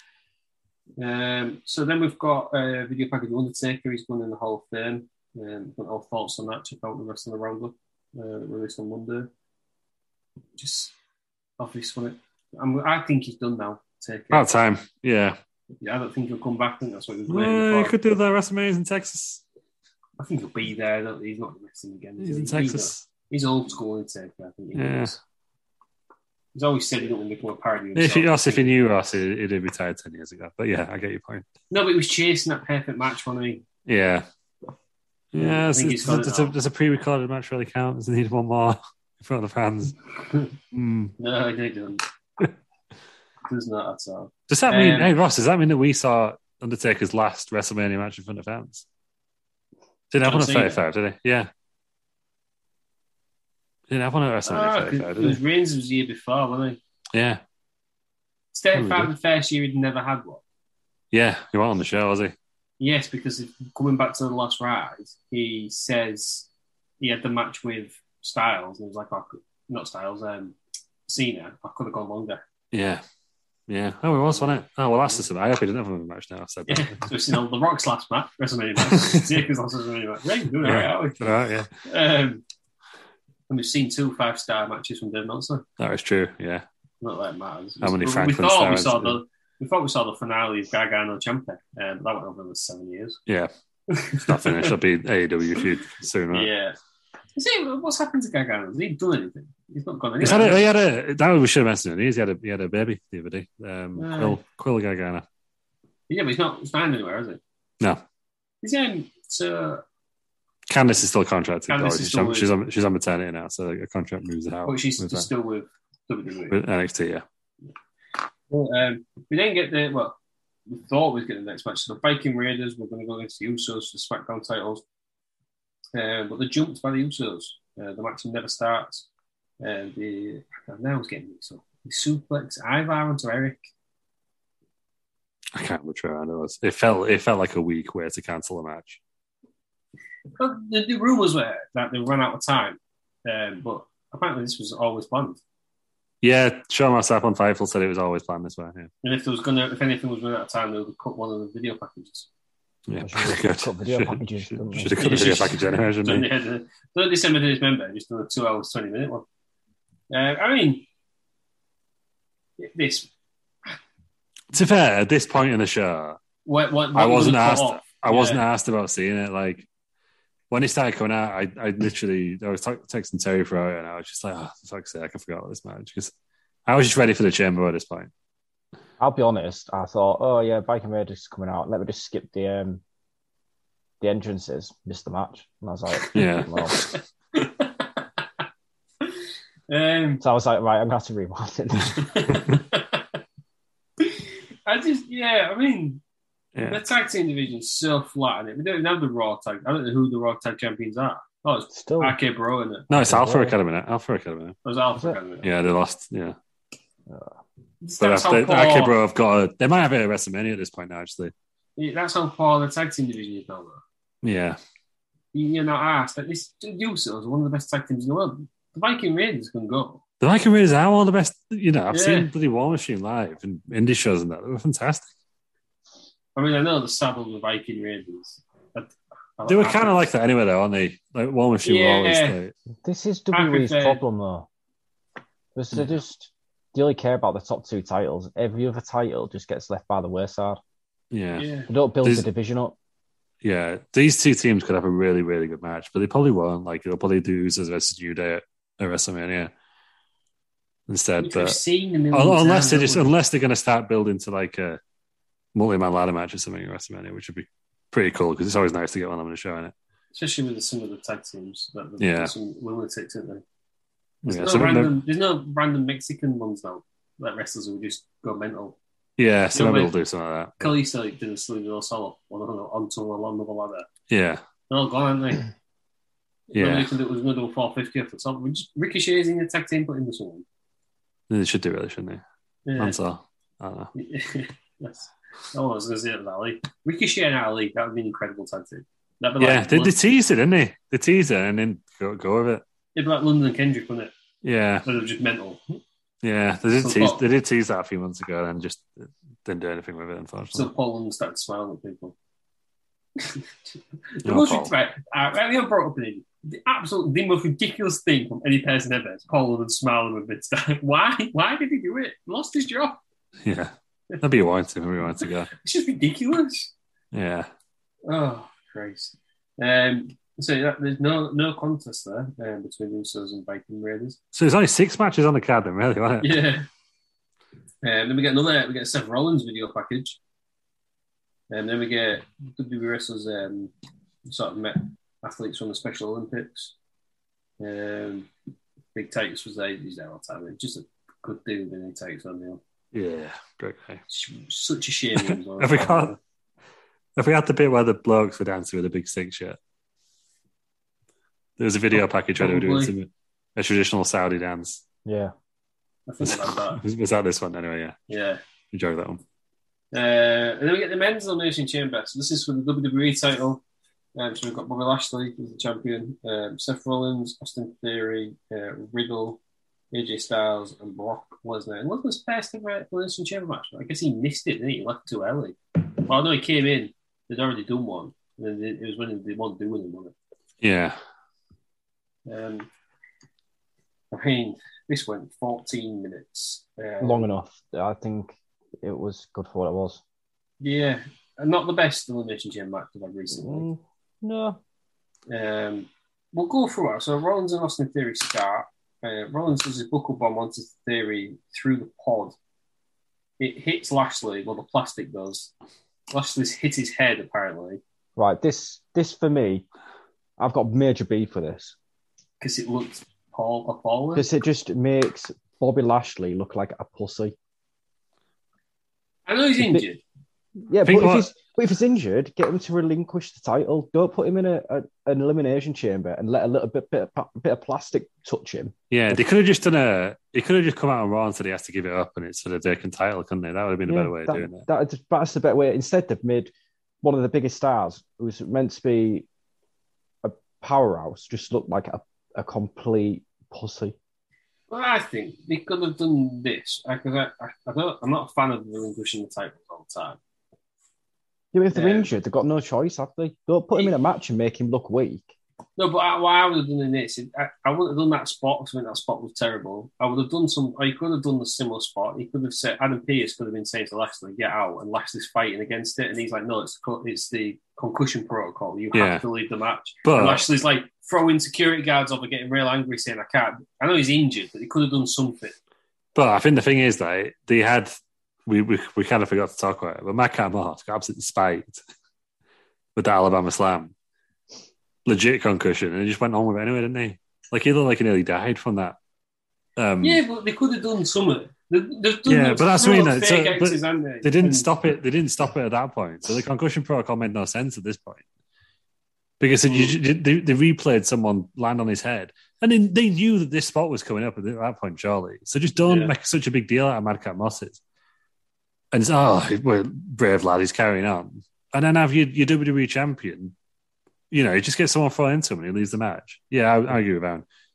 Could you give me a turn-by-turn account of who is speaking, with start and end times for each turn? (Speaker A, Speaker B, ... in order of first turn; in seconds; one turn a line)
Speaker A: 1.0-9.3
Speaker A: 10.6-10.9
Speaker A: 11.6-14.5
Speaker B: 14.3-15.4
Speaker A: 15.8-17.9
Speaker B: 17.3-19.4
Speaker A: 20.2-25.2
Speaker B: 22.2-23.0
Speaker B: 24.7-25.1
Speaker A: 26.5-28.8
Speaker B: 27.9-31.4
Speaker A: 31.7-33.6
Speaker B: 33.9-34.2
Speaker B: 35.3-40.0
Speaker A: 35.3-36.5
Speaker A: 40.2-40.5
Speaker B: 40.7-41.1
Speaker A: 41.2-42.0
Speaker A: 43.5-45.1
Speaker B: 44.5-48.8
Speaker B: 50.1-51.5
Speaker A: 50.2-50.8
Speaker B: 53.9-55.4
Speaker A: 54.5-56.8
Speaker B: 57.1-57.4
Speaker A: 58.5-60.4
Speaker B: 58.7-59.1
Speaker B: 61.1-62.3
Speaker A: 62.8-66.5
Speaker A: 67.0-70.5
Speaker A: 71.1-72.4
Speaker B: 72.7-73.0
Speaker B: 73.7-77.1
Speaker A: 74.3-75.2
Speaker A: 76.7-81.2
Speaker B: 78.8-79.4
Speaker B: 80.6-81.7
Speaker A: 81.8-82.4
Speaker A: 83.5-85.6
Speaker B: 85.8-86.6
Speaker A: 87.0-93.2
Speaker B: 87.8-89.2
Speaker A: 93.9-94.7
Speaker B: 94.2-96.5
Speaker A: 96.3-96.8
Speaker A: 97.3-100.7
Speaker B: 100.2-105.2
Speaker A: 104.0-104.4
Speaker A: 106.1-107.4
Speaker A: 108.6-109.8
Speaker B: 110.7-115.3
Speaker A: 111.7-112.5
Speaker A: 114.7-116.6
Speaker B: 116.5-117.2
Speaker A: 118.5-120.2
Speaker A: 120.7-124.8
Speaker A: 125.9-129.1
Speaker A: 129.6-133.6
Speaker B: 135.5-139.0
Speaker A: 140.4-145.4
Speaker B: 146.2-148.9
Speaker A: 149.0-152.3
Speaker B: 152.9-156.3
Speaker C: 153.0-155.1
Speaker A: 155.0-159.2
Speaker A: 160.1-160.8
Speaker A: 162.6-163.1
Speaker B: 164.5-166.2
Speaker A: 166.4-168.4
Speaker B: 166.9-169.7
Speaker B: 170.5-176.1
Speaker B: 176.7-178.1
Speaker C: 179.0-182.8
Speaker C: 184.0-186.8
Speaker B: 186.1-186.7
Speaker A: 186.9-188.0
Speaker A: 189.7-190.2
Speaker C: 190.2-192.1
Speaker A: 192.0-193.0
Speaker A: 194.0-196.0
Speaker B: 196.6-196.8
Speaker A: 196.7-202.9
Speaker C: 201.7-202.2
Speaker B: 202.9-204.6
Speaker C: 202.9-203.5
Speaker A: 204.6-205.5
Speaker B: 205.4-206.3
Speaker A: 207.8-208.9
Speaker B: 208.0-211.3
Speaker A: 211.8-213.8
Speaker B: 214.2-214.6
Speaker A: 215.3-220.0
Speaker B: 220.2-225.1
Speaker A: 221.9-222.3
Speaker A: 226.3-230.0
Speaker B: 229.4-232.5
Speaker A: 231.6-232.3
Speaker C: 232.8-234.4
Speaker A: 233.3-234.0
Speaker C: 235.6-240.6
Speaker B: 241.1-241.4
Speaker A: 241.4-241.7
Speaker C: 241.7-242.7
Speaker B: 243.4-249.5
Speaker B: 250.9-251.6
Speaker A: 251.2-253.1
Speaker B: 252.1-254.8
Speaker B: 255.5-259.7
Speaker A: 260.1-263.4
Speaker B: 262.0-262.3
Speaker B: 264.2-265.0
Speaker A: 264.2-268.8
Speaker B: 269.2-270.8
Speaker A: 269.5-269.9
Speaker A: 270.6-273.9
Speaker B: 274.1-274.4
Speaker A: 274.7-275.5
Speaker A: 276.5-280.4
Speaker B: 276.5-276.9
Speaker B: 281.3-282.2
Speaker A: 282.6-283.0
Speaker B: 282.8-283.9
Speaker A: 283.9-289.9
Speaker B: 289.4-292.6
Speaker A: 292.9-294.1
Speaker B: 294.4-294.9
Speaker A: 294.8-295.6
Speaker B: 296.2-300.7
Speaker A: 296.8-297.2
Speaker A: 300.5-302.1
Speaker A: 303.2-303.4
Speaker A: 304.2-313.0
Speaker B: 304.2-304.7
Speaker B: 313.4-315.5
Speaker A: 315.6-316.7
Speaker B: 317.1-317.5
Speaker A: 318.1-324.2
Speaker B: 324.3-326.4
Speaker A: 326.2-326.6
Speaker A: 327.8-330.2
Speaker A: 331.5-333.7
Speaker A: 334.3-336.7
Speaker A: 337.6-338.3
Speaker A: 338.9-342.6
Speaker B: 342.9-344.0
Speaker A: 344.1-346.2
Speaker B: 345.2-346.1
Speaker B: 347.2-349.6
Speaker B: 351.6-354.8
Speaker A: 351.9-352.9
Speaker C: 355.0-355.3
Speaker A: 356.1-356.8
Speaker B: 356.2-357.9
Speaker A: 358.1-358.4
Speaker B: 358.7-359.2
Speaker A: 359.9-363.6
Speaker A: 364.1-369.4
Speaker A: 369.9-380.1
Speaker B: 380.6-381.0
Speaker A: 382.2-382.7
Speaker A: 384.1-387.3
Speaker C: 387.0-390.0
Speaker A: 390.6-393.7
Speaker C: 393.3-394.6
Speaker A: 395.3-402.4
Speaker A: 403.4-405.5
Speaker A: 406.1-407.8
Speaker C: 408.1-409.6
Speaker C: 410.4-411.7
Speaker A: 412.4-414.3
Speaker C: 414.1-417.3
Speaker A: 419.2-420.0
Speaker C: 419.6-419.8
Speaker C: 420.7-429.2
Speaker B: 420.8-421.3
Speaker B: 428.9-434.6
Speaker C: 433.9-439.2
Speaker C: 440.2-443.9
Speaker A: 444.7-450.2
Speaker C: 451.5-455.3
Speaker A: 451.7-452.1
Speaker A: 455.8-475.5
Speaker B: 468.9-469.2
Speaker B: 470.0-470.4
Speaker B: 476.1-477.9
Speaker B: 478.5-481.8
Speaker B: 482.9-483.9
Speaker B: 485.1-488.9
Speaker B: 489.8-490.2
Speaker A: 490.0-494.7
Speaker B: 492.3-498.2
Speaker B: 499.4-507.8
Speaker A: 499.7-500.0
Speaker A: 505.9-506.1
Speaker B: 508.9-513.5
Speaker B: 514.3-517.4